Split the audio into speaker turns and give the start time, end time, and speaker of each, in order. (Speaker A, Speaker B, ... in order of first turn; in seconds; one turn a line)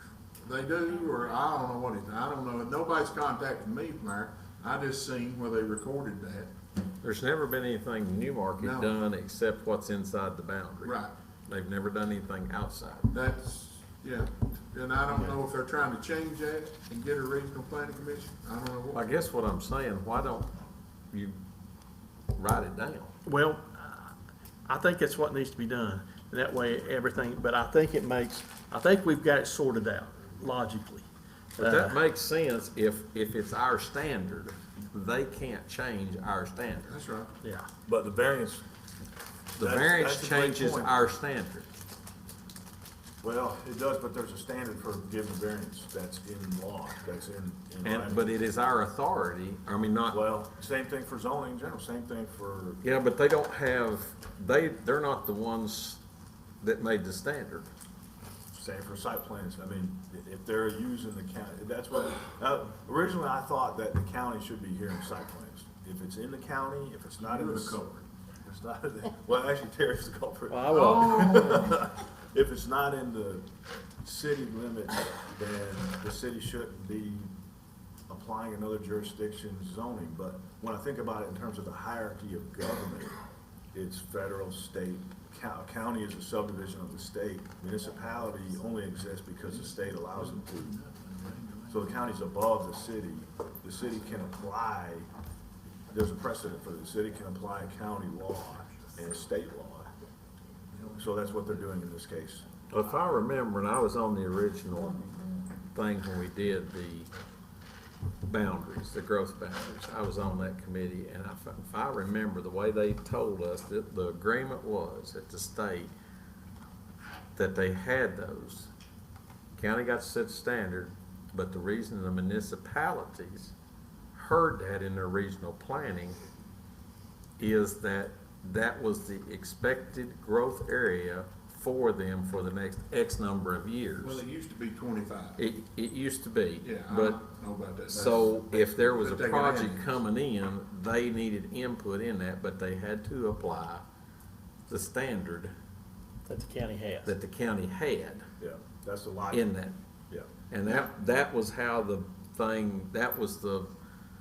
Speaker A: 0.4-6.5
Speaker B: 7.0-13.1
Speaker A: 8.6-8.9
Speaker A: 10.8-11.1
Speaker A: 13.1-19.0
Speaker B: 18.9-20.5
Speaker B: 21.1-21.4
Speaker B: 22.3-23.1
Speaker C: 23.2-24.1
Speaker C: 24.7-32.0
Speaker B: 31.6-36.9
Speaker A: 36.9-37.3
Speaker C: 37.4-37.7
Speaker D: 37.9-38.6
Speaker D: 39.6-41.0
Speaker B: 39.6-41.7
Speaker D: 43.2-48.3
Speaker B: 47.8-50.2
Speaker D: 50.1-53.0
Speaker B: 52.8-56.0
Speaker B: 56.6-57.7
Speaker D: 58.5-67.8
Speaker A: 67.2-68.0
Speaker D: 68.4-73.5
Speaker C: 70.5-71.6
Speaker A: 70.7-71.8
Speaker D: 74.0-77.3
Speaker D: 78.1-83.2
Speaker D: 83.7-90.7
Speaker A: 89.5-92.0
Speaker D: 91.7-95.1
Speaker D: 95.9-99.9
Speaker A: 100.7-101.4
Speaker D: 101.0-102.5
Speaker B: 102.7-105.1
Speaker B: 105.7-107.1
Speaker B: 108.2-115.9
Speaker B: 117.3-118.7
Speaker B: 119.5-123.5
Speaker B: 124.1-126.2
Speaker B: 127.4-134.2
Speaker A: 134.0-135.4
Speaker B: 135.4-137.2
Speaker A: 136.6-139.9
Speaker B: 137.9-143.8
Speaker B: 144.7-145.5
Speaker C: 146.3-147.1
Speaker B: 147.0-148.2
Speaker D: 148.4-149.5
Speaker B: 149.3-149.8
Speaker B: 150.5-153.7
Speaker A: 150.6-150.9